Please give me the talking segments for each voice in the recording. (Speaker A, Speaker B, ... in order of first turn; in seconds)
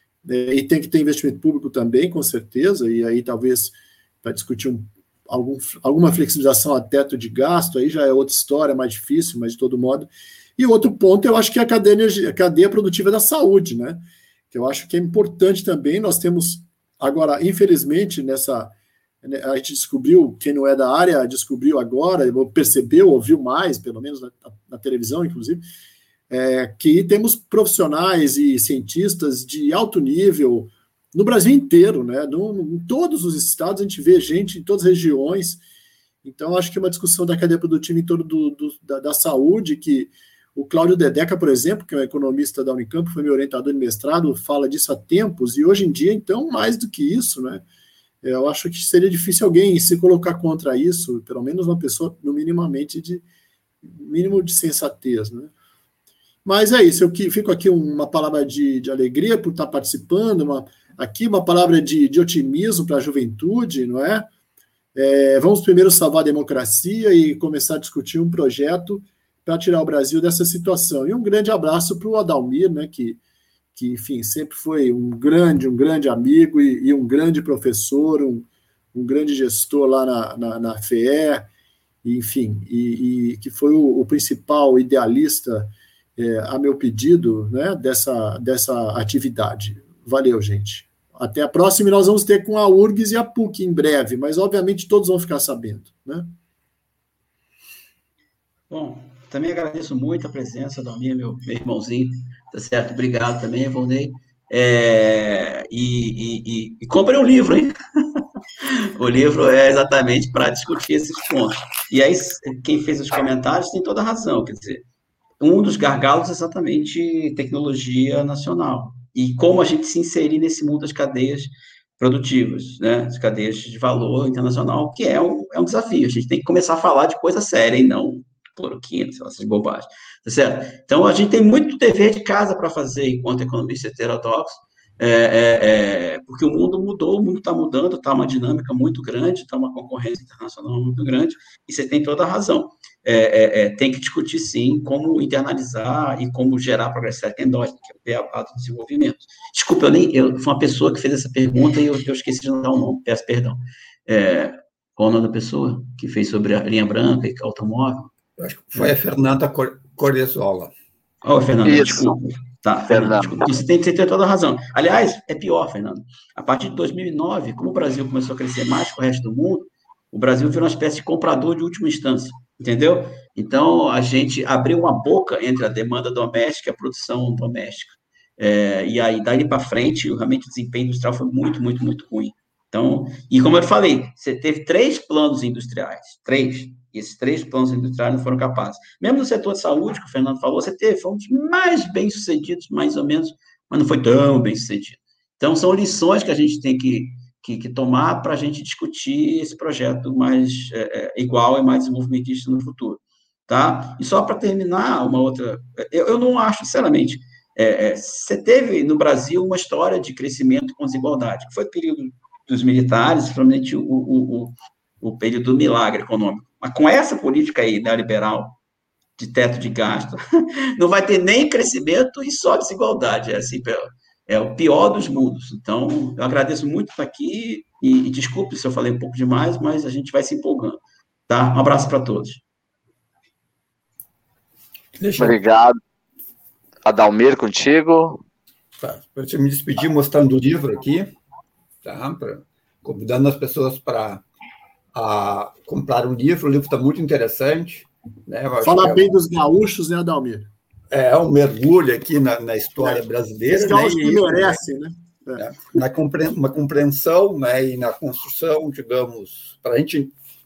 Speaker A: 0.2-25.6, 26.3-35.6, 36.2-47.6, 48.2-53.2, 53.8-55.5, 56.4-64.3, 64.9-73.2, 73.7-81.5, 82.0-96.3, 248.6-250.5, 252.8-255.4
Speaker B: 98.7-107.8, 109.0-114.8, 115.4-158.1, 161.2-218.6, 219.2-220.2, 220.8-232.4
Speaker C: 158.4-160.7, 235.0-235.4, 238.8-241.1, 241.8-244.2, 244.9-249.1, 250.9-254.6, 255.3-260.1
Speaker D: 161.6-162.2, 162.9-163.4, 235.2-235.8, 236.8-238.2